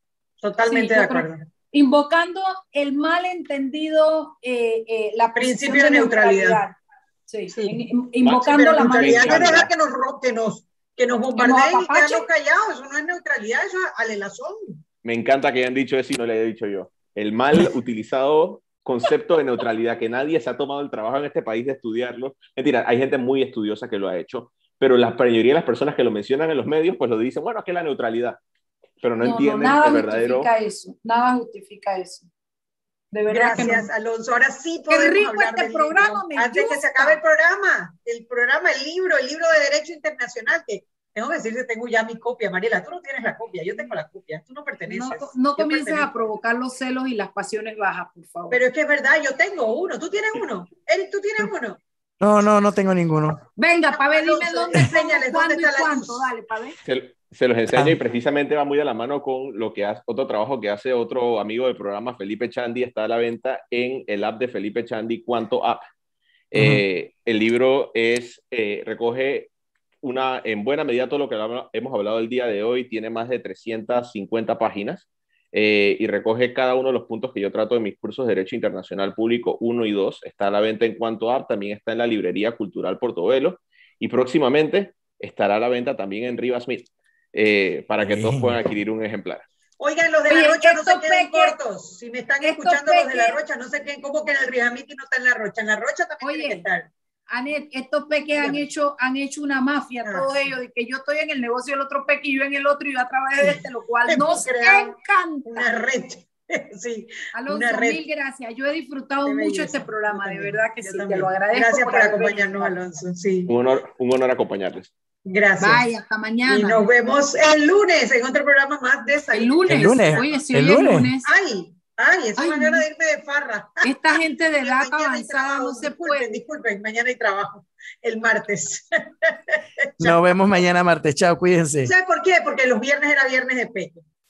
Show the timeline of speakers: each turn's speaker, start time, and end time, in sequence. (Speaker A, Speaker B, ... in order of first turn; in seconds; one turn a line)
Speaker A: 0.4-1.5
Speaker B: 0.6-6.8
Speaker A: 5.4-6.6
Speaker B: 7.3-9.7
Speaker A: 7.5-7.9
Speaker C: 8.2-9.7
Speaker A: 8.4-14.8
Speaker B: 11.4-12.3
Speaker C: 15.0-28.4
Speaker C: 29.0-30.5
Speaker B: 29.2-32.3
Speaker B: 33.1-33.9
Speaker A: 33.3-46.3
Speaker B: 34.9-37.2
Speaker B: 44.9-48.6
Speaker A: 48.5-51.8
Speaker D: 52.2-53.4
Speaker B: 53.6-56.8
Speaker A: 53.9-56.3
Speaker C: 56.8-65.8
Speaker C: 66.5-69.5
Speaker D: 66.5-66.8
Speaker C: 70.0-89.5
Speaker D: 88.1-88.6
Speaker A: 89.8-96.9
Speaker B: 90.3-91.6
Speaker B: 92.4-93.4
Speaker B: 96.2-96.7
Speaker B: 97.3-105.7
Speaker A: 100.0-100.3
Speaker A: 103.4-108.0
Speaker B: 107.3-112.8
Speaker A: 109.3-113.5
Speaker C: 113.5-114.9
Speaker A: 115.3-115.8
Speaker B: 115.6-116.8
Speaker A: 116.5-120.5
Speaker B: 119.3-121.3
Speaker D: 119.7-121.1
Speaker A: 121.2-130.2
Speaker B: 122.4-122.8
Speaker B: 123.8-126.3
Speaker D: 130.0-131.9
Speaker A: 131.8-134.1